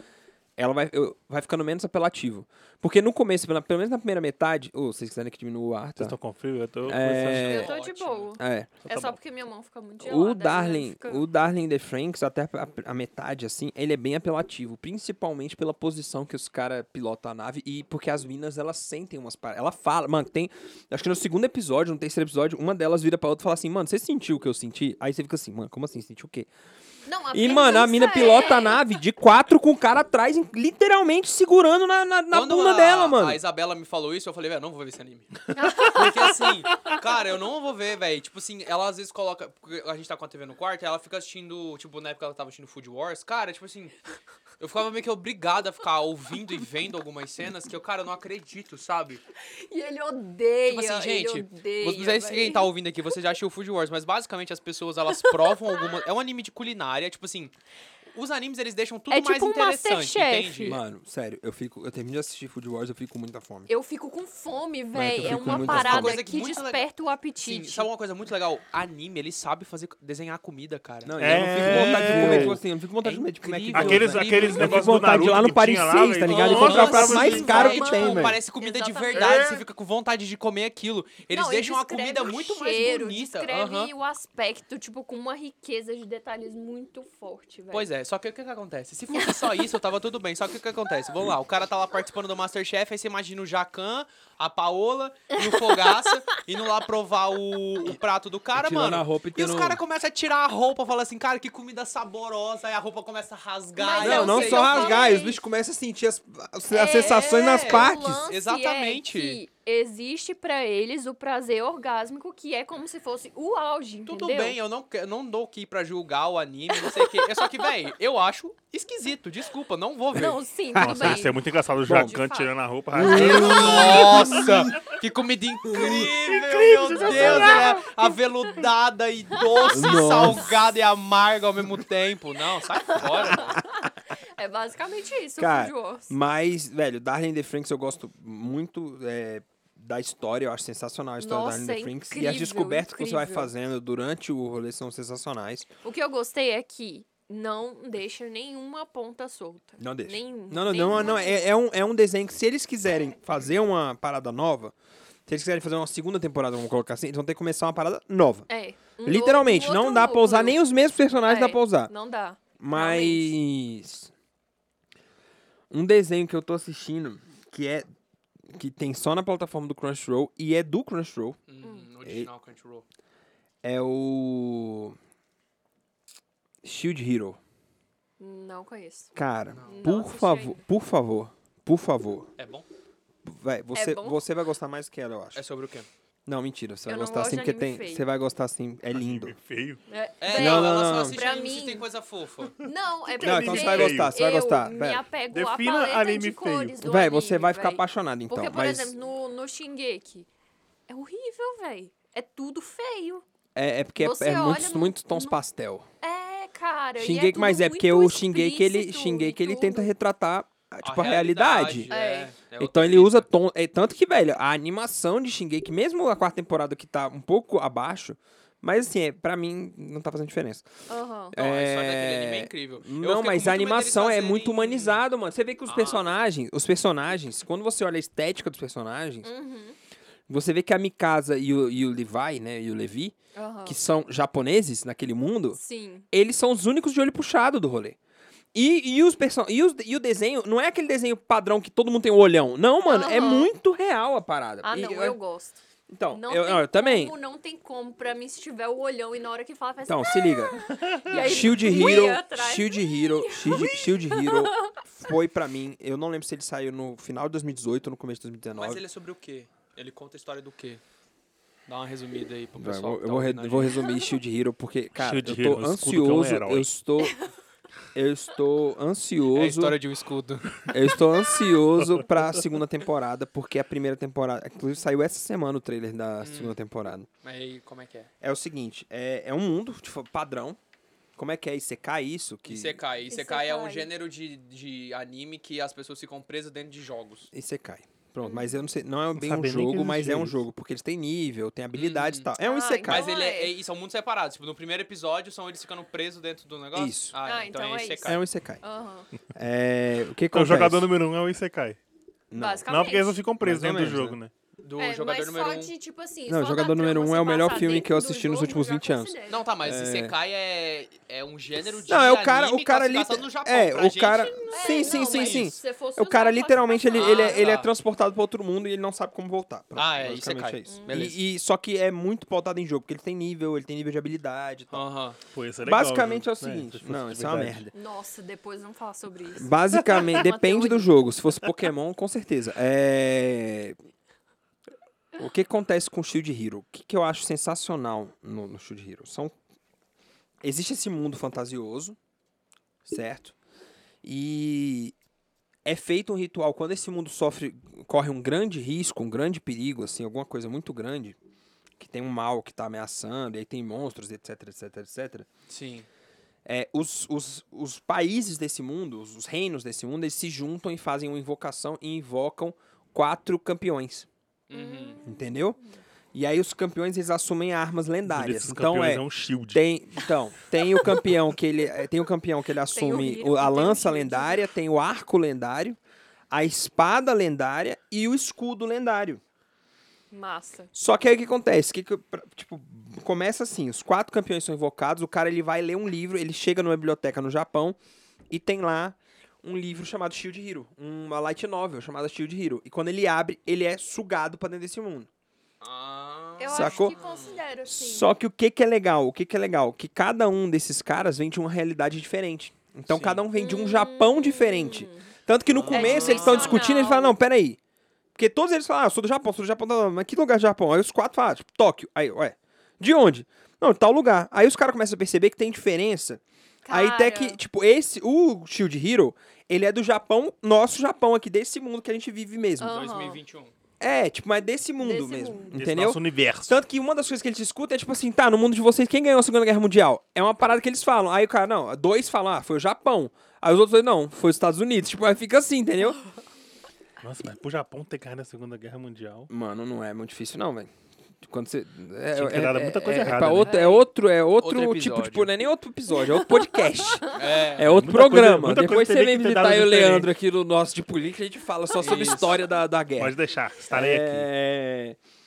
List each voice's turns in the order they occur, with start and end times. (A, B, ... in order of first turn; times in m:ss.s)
0:00.6-0:06.2 A
0:06.0-0:07.6 B
0:06.8-0:07.7 A
0:07.3-0:08.4 C
0:07.3-0:11.2 D
0:08.4-0:08.8 A
0:08.8-0:09.2 B
0:10.0-0:26.5 A
0:27.0-0:28.8 D
0:27.3-0:33.4 A
0:32.3-0:43.9 C
0:35.5-0:36.3 D
0:44.6-0:49.2 C
0:49.5-0:52.7 D
0:50.7-0:57.5 C
0:55.1-0:55.9 D
0:58.1-1:00.8 C
0:59.1-1:00.8 D
1:00.6-1:03.7 A
1:03.7-1:07.9 D
1:04.9-1:06.2 A
1:05.4-1:06.9 C
1:07.4-1:14.9 C
1:11.0-1:18.4 A
1:11.2-1:12.6 B
1:13.7-1:17.8 B
1:16.2-1:23.9 C
1:16.7-1:19.5 D
1:19.1-1:19.6 B
1:21.3-1:27.9 D
1:27.7-1:45.2 C
1:38.5-1:39.8 A
1:43.8-1:45.4 D
1:44.0-1:48.3 A
1:46.7-1:54.6 D
1:47.2-1:49.4 C
1:54.1-2:00.4 C
1:56.8-1:57.3 D
2:00.1-2:03.9 D
2:00.8-2:01.2 A
2:00.8-2:04.7 B
2:01.8-2:02.2 A
2:02.9-2:04.7 A
2:03.1-2:13.6 C
2:05.6-2:06.1 A
2:05.7-2:07.8 B
2:07.1-2:08.1 D
2:09.3-2:10.4 D
2:09.7-2:10.6 A
2:12.7-2:16.1 D
2:13.3-2:13.6 A
2:15.4-2:25.7 A
2:21.2-2:23.5 D
2:25.8-2:31.4 D
2:29.8-2:34.7 A
2:35.2-2:41.9 A
2:38.5-2:40.6 D
2:41.2-2:43.3 D
2:42.6-2:44.1 A
2:45.7-2:47.9 A
2:48.5-2:51.4 A
2:51.5-2:52.8 C
2:51.6-2:51.9 D
2:52.0-2:52.3 A
2:53.6-2:55.0 A
2:56.6-2:57.4 A
2:58.2-3:00.6 D
2:59.2-3:02.3 A
2:59.5-2:59.9 C
3:02.4-3:02.6 C
3:03.2-3:05.4 A
3:03.7-3:04.2 D
3:05.3-3:05.9 C
3:06.2-3:09.4 A
3:06.9-3:08.0 D
3:08.9-3:09.8 B
3:09.9-3:11.9 D
3:10.2-3:12.6 C
3:10.3-3:11.2 A
3:12.6-3:20.3 D
3:13.1-3:14.1 B
3:13.2-3:15.0 A
3:15.3-3:16.8 B
3:16.8-3:18.9 A
3:20.9-3:23.2 D
3:23.5-3:25.8 A
3:24.0-3:25.4 D
3:26.0-3:29.9 D
3:27.0-3:31.9 A
3:30.8-3:33.3 C
3:31.9-3:32.3 D
3:32.6-3:40.7 A
3:40.9-3:41.3 D
3:41.3-3:49.3 A
3:41.3-3:45.0 C
3:45.7-3:46.0 C
3:49.2-3:49.8 D
3:50.3-3:55.6 A
3:53.4-3:53.8 D
3:55.5-3:56.1 D
3:56.1-3:58.0 A
3:58.5-4:05.2 A
4:02.8-4:03.5 D
4:04.6-4:05.6 D
4:05.9-4:07.2 A
4:06.1-4:14.7 D
4:09.8-4:18.8 A
4:18.5-4:20.8 C
4:21.7-4:23.8 C
4:22.6-4:27.2 A
4:25.0-4:26.7 B
4:27.9-4:29.8 A
4:29.3-4:30.7 C
4:30.7-4:37.1 A
4:36.2-4:36.6 C
4:37.2-4:38.1 C
4:38.2-4:40.6 A
4:41.2-4:42.8 A
4:42.4-4:47.3 C
4:43.1-4:43.9 D
4:47.3-4:53.1 A
4:48.2-4:48.6 D
4:49.1-4:50.4 B
4:51.7-4:52.3 C
4:52.4-4:53.5 D
4:52.8-4:58.2 C
4:56.7-4:57.1 A
4:57.2-4:59.1 D
4:58.0-4:58.6 A
4:59.3-5:00.9 A
5:00.3-5:01.8 B
5:02.3-5:02.7 A
5:02.4-5:03.2 D
5:02.7-5:04.3 B
5:03.4-5:04.2 A
5:04.6-5:05.7 C
5:04.8-5:09.4 D
5:06.3-5:10.1 A
5:09.3-5:15.5 C
5:11.9-5:24.8 A
5:14.5-5:17.5 D
5:16.9-5:17.7 C
5:19.8-5:21.2 C
5:20.7-5:21.0 D
5:24.7-5:25.2 C
5:25.3-5:27.6 B
5:25.6-5:27.7 A
5:27.7-5:31.1 D
5:29.3-5:33.8 A
5:35.2-5:39.3 A
5:40.4-5:42.0 A
5:42.8-5:43.3 A
5:44.0-5:44.9 A
5:45.6-5:51.2 A
5:51.8-5:55.3 A
5:55.5-5:55.9 C
5:56.4-6:04.1 A
6:04.5-6:05.0 C
6:04.5-6:05.8 D
6:05.0-6:05.6 A
6:06.1-6:15.8 A
6:08.0-6:09.6 B
6:12.7-6:14.4 D
6:16.3-6:19.2 A
6:20.1-6:20.7 D
6:20.7-6:27.8 A
6:28.3-6:35.1 A
6:35.6-6:37.4 C
6:36.4-6:38.1 D
6:36.5-6:37.0 A
6:37.6-6:47.6 A
6:42.9-6:43.2 C
6:43.4-6:45.1 D
6:45.5-6:46.6 C
6:45.7-6:47.2 D
6:48.1-7:02.8 A
6:56.6-6:57.4 D
7:02.6-7:03.2 D
7:02.6-7:03.5 C
7:03.8-7:16.0 A
7:04.8-7:05.5 D
7:05.5-7:06.5 B
7:17.0-7:19.3 B
7:19.3-7:20.7 A
7:21.2-7:33.2 A
7:22.1-7:23.6 B
7:23.4-7:23.8 D
7:24.4-7:25.3 C
7:27.1-7:27.7 C
7:27.6-7:30.1 B
7:31.8-7:32.4 C
7:33.0-7:34.3 B
7:33.7-7:35.0 A